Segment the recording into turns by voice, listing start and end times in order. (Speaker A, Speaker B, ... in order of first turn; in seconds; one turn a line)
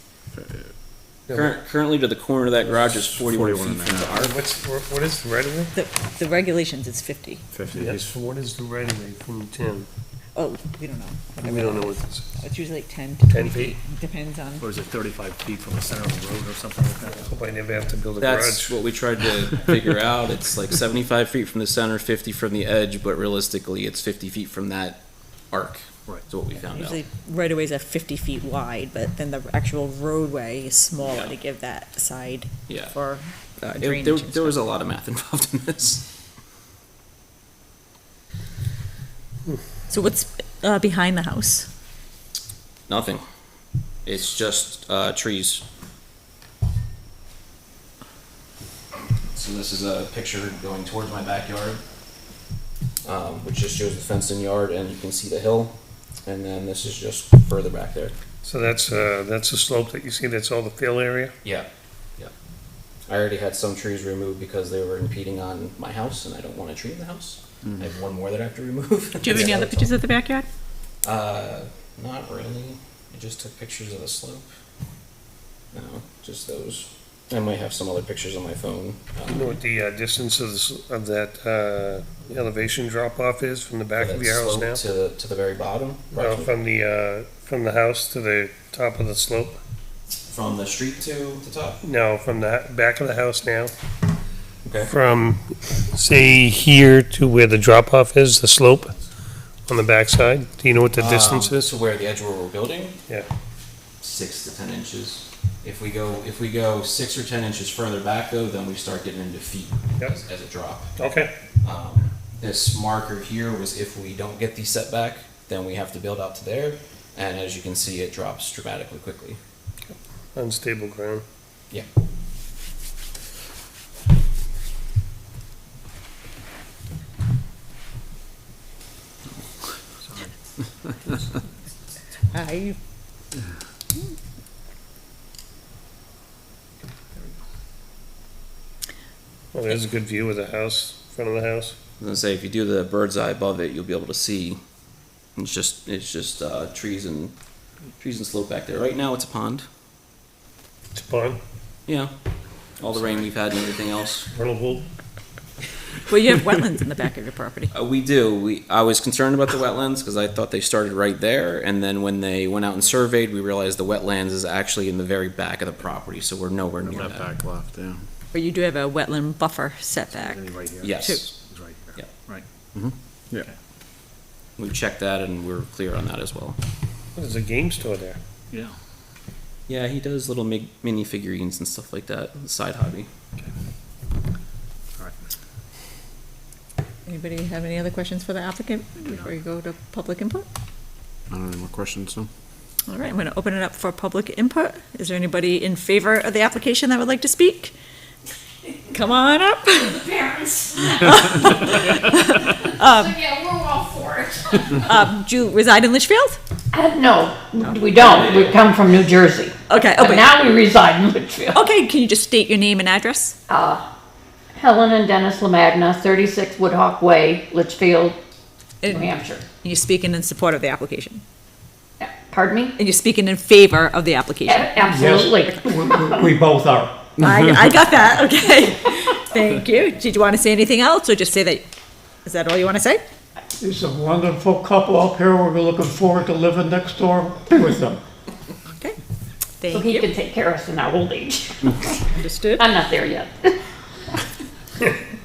Speaker A: 0.3-0.7
Speaker B: 1.3-1.5
Speaker C: 1.3-4.4
Speaker B: 2.6-3.4
Speaker A: 3.3-4.2
Speaker B: 4.1-5.7
Speaker D: 5.7-7.4
Speaker A: 7.5-8.1
Speaker B: 7.7-9.9
Speaker D: 10.3-14.6
Speaker B: 11.4-12.3
Speaker B: 13.3-13.7
Speaker E: 14.6-17.1
Speaker B: 17.0-18.8
Speaker C: 18.2-27.0
Speaker D: 26.5-34.5
Speaker C: 31.0-31.3
Speaker C: 32.7-32.9
Speaker C: 33.6-36.0
Speaker D: 39.9-41.7
Speaker C: 42.9-43.2
Speaker C: 44.0-45.6
Speaker C: 49.3-51.8
Speaker C: 53.0-58.1
Speaker B: 58.4-61.3
Speaker C: 61.4-62.3
Speaker C: 63.1-69.9
Speaker D: 69.2-70.5
Speaker B: 69.3-69.7
Speaker C: 71.0-74.4
Speaker C: 75.7-79.6
Speaker B: 79.3-84.8
Speaker C: 84.0-86.5
Speaker B: 86.1-89.6
Speaker C: 90.3-91.8
Speaker B: 91.8-93.7
Speaker C: 94.6-94.9
Speaker B: 94.8-99.0
Speaker B: 99.7-101.7
Speaker C: 101.0-103.0
Speaker C: 104.0-110.9
Speaker B: 111.0-111.3
Speaker C: 111.6-119.4
Speaker B: 119.9-121.2
Speaker D: 132.3-132.8
Speaker B: 139.5-141.8
Speaker C: 142.0-144.6
Speaker C: 145.3-147.3
Speaker C: 148.0-149.7
Speaker B: 150.9-151.4
Speaker C: 152.8-154.3
Speaker B: 154.3-154.8
Speaker D: 156.1-157.7
Speaker C: 157.7-167.3
Speaker A: 166.9-168.0
Speaker D: 168.3-171.2
Speaker E: 170.2-170.9
Speaker C: 170.8-171.3
Speaker E: 171.4-172.4
Speaker A: 172.7-173.5
Speaker C: 174.6-176.6
Speaker B: 177.2-178.2
Speaker C: 179.7-183.1
Speaker E: 185.0-185.2
Speaker D: 187.1-190.4
Speaker A: 191.3-192.3
Speaker D: 192.9-197.7
Speaker D: 198.9-200.0
Speaker F: 199.9-201.1
Speaker D: 200.9-203.2
Speaker F: 202.4-204.8
Speaker D: 204.8-206.4
Speaker F: 206.7-211.6
Speaker C: 207.6-208.6
Speaker D: 209.7-210.3
Speaker D: 211.5-213.4
Speaker F: 213.5-213.9
Speaker F: 214.5-218.2
Speaker F: 218.8-219.4
Speaker D: 219.6-221.2
Speaker F: 222.0-222.7
Speaker D: 222.7-224.8
Speaker F: 224.4-226.3
Speaker G: 224.8-227.1
Speaker D: 227.2-231.6
Speaker D: 232.2-233.0
Speaker G: 233.6-238.0
Speaker D: 238.7-239.0
Speaker D: 239.6-240.1
Speaker F: 239.7-242.0
Speaker D: 242.1-242.6
Speaker F: 242.6-243.6